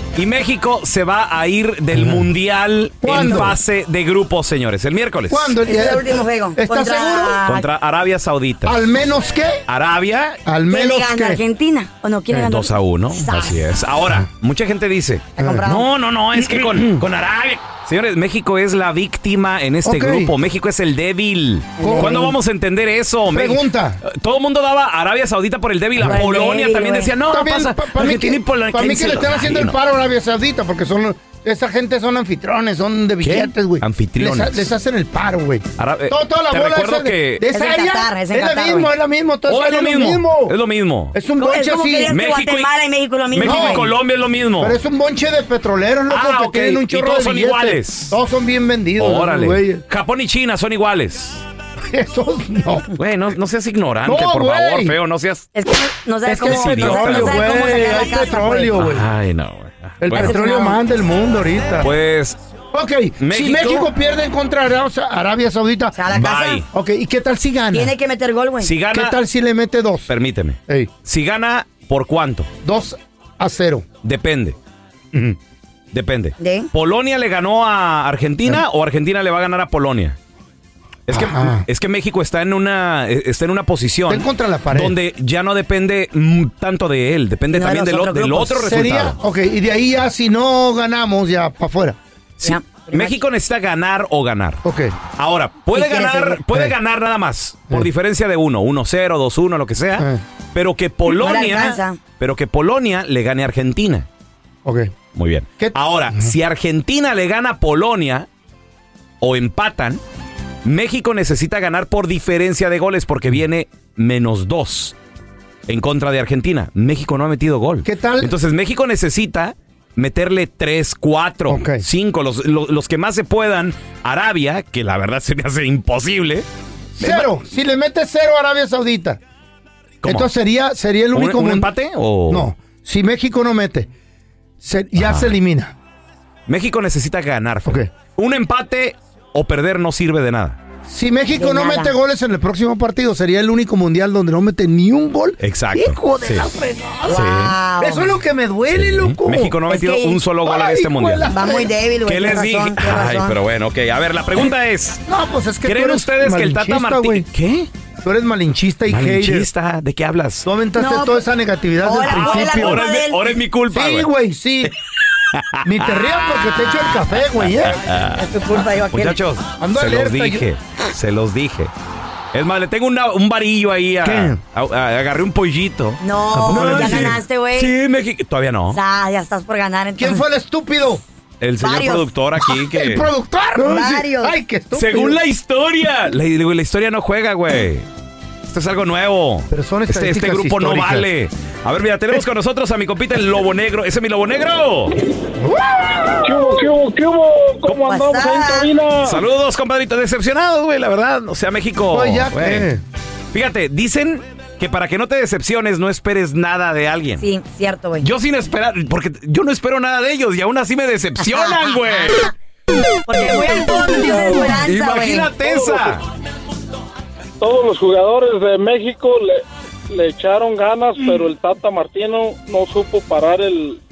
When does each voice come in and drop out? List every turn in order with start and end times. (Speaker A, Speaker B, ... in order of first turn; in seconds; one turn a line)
Speaker A: 0.1-5.6
Speaker B: 1.9-2.3
Speaker B: 3.0-3.6
Speaker B: 5.3-7.4
Speaker C: 5.7-7.7
Speaker A: 7.4-8.8
Speaker B: 8.7-9.6
Speaker A: 9.7-10.4
Speaker B: 10.4-11.4
Speaker C: 10.7-13.6
Speaker A: 12.4-29.8
Speaker B: 15.4-15.8
Speaker C: 15.4-15.9
Speaker B: 16.5-17.0
Speaker B: 19.8-20.3
Speaker C: 21.8-22.3
Speaker B: 21.8-22.3
Speaker B: 23.3-24.0
Speaker C: 26.1-27.1
Speaker B: 27.3-40.5
Speaker A: 33.2-34.7
Speaker A: 35.8-37.4
Speaker C: 37.5-38.9
Speaker A: 39.5-41.1
Speaker B: 41.1-42.1
Speaker C: 41.4-43.9
Speaker A: 42.1-42.7
Speaker A: 43.3-44.8
Speaker B: 43.4-43.9
Speaker B: 44.6-49.8
Speaker A: 46.1-48.1
Speaker A: 49.0-51.4
Speaker B: 51.9-52.9
Speaker A: 53.0-55.5
Speaker B: 54.0-55.0
Speaker C: 55.5-58.8
Speaker B: 56.2-59.0
Speaker A: 56.4-57.4
Speaker A: 58.8-60.4
Speaker B: 60.0-61.9
Speaker C: 60.1-60.8
Speaker A: 61.8-62.4
Speaker B: 62.7-66.0
Speaker A: 63.2-63.9
Speaker C: 65.9-66.6
Speaker A: 66.1-66.7
Speaker B: 66.7-67.9
Speaker C: 67.7-68.7
Speaker A: 68.6-69.2
Speaker B: 68.9-70.1
Speaker A: 70.1-72.5
Speaker B: 72.6-73.8
Speaker A: 74.0-74.5
Speaker A: 75.9-80.2
Speaker C: 76.4-76.7
Speaker A: 81.1-89.2
Speaker B: 81.1-81.7
Speaker B: 84.1-84.9
Speaker C: 87.5-88.6
Speaker B: 88.6-92.0
Speaker A: 92.4-94.6
Speaker C: 92.4-93.2
Speaker B: 94.6-94.9
Speaker A: 95.2-104.1
Speaker C: 95.7-96.4
Speaker B: 100.0-100.2
Speaker C: 101.0-102.0
Speaker B: 104.6-104.9
Speaker A: 105.1-108.3
Speaker B: 105.6-106.3
Speaker A: 109.2-110.0
Speaker A: 110.6-114.9
Speaker A: 115.7-126.5
Speaker B: 117.8-118.3
Speaker B: 121.5-121.8
Speaker A: 127.0-127.3
Speaker B: 127.0-129.2
Speaker A: 130.0-130.3
Speaker B: 130.0-131.7
Speaker A: 131.1-132.5
Speaker B: 132.3-133.9
Speaker B: 134.6-135.7
Speaker A: 135.0-135.3
Speaker A: 136.5-140.6
Speaker B: 137.7-137.9
Speaker B: 140.8-147.2
Speaker C: 141.3-141.9
Speaker A: 145.4-146.5
Speaker C: 147.1-148.1
Speaker A: 147.1-147.5
Speaker B: 147.8-149.6
Speaker A: 148.7-151.3
Speaker C: 149.7-150.2
Speaker B: 150.4-151.7
Speaker C: 151.3-153.4
Speaker A: 152.1-155.0
Speaker B: 155.1-157.2
Speaker A: 155.6-157.7
Speaker B: 158.0-159.5
Speaker A: 158.9-160.5
Speaker B: 160.4-162.8
Speaker C: 160.8-161.2
Speaker C: 161.8-163.4
Speaker A: 162.1-164.1
Speaker B: 163.7-164.7
Speaker A: 165.3-166.1
Speaker B: 165.6-167.8
Speaker A: 167.6-168.2
Speaker C: 168.2-169.2
Speaker A: 168.9-171.7
Speaker B: 169.6-170.4
Speaker A: 172.3-178.8
Speaker B: 174.0-174.4
Speaker C: 176.0-177.7
Speaker B: 176.3-177.2
Speaker C: 178.7-180.2
Speaker B: 179.9-181.0
Speaker A: 181.4-183.1
Speaker C: 181.6-182.1
Speaker B: 182.5-185.2
Speaker C: 183.6-184.3
Speaker A: 184.7-187.9
Speaker A: 188.5-194.9
Speaker B: 189.5-191.1
Speaker B: 195.4-196.5
Speaker D: 196.2-199.2
Speaker A: 197.6-198.0
Speaker C: 197.8-198.7
Speaker A: 199.0-202.7
Speaker B: 201.9-202.8
Speaker A: 203.3-207.2
Speaker C: 207.2-208.1
Speaker A: 208.0-212.3
Speaker C: 211.3-212.1
Speaker C: 213.1-215.3
Speaker D: 214.1-214.6
Speaker A: 214.6-216.0
Speaker D: 215.4-215.9
Speaker D: 217.4-223.8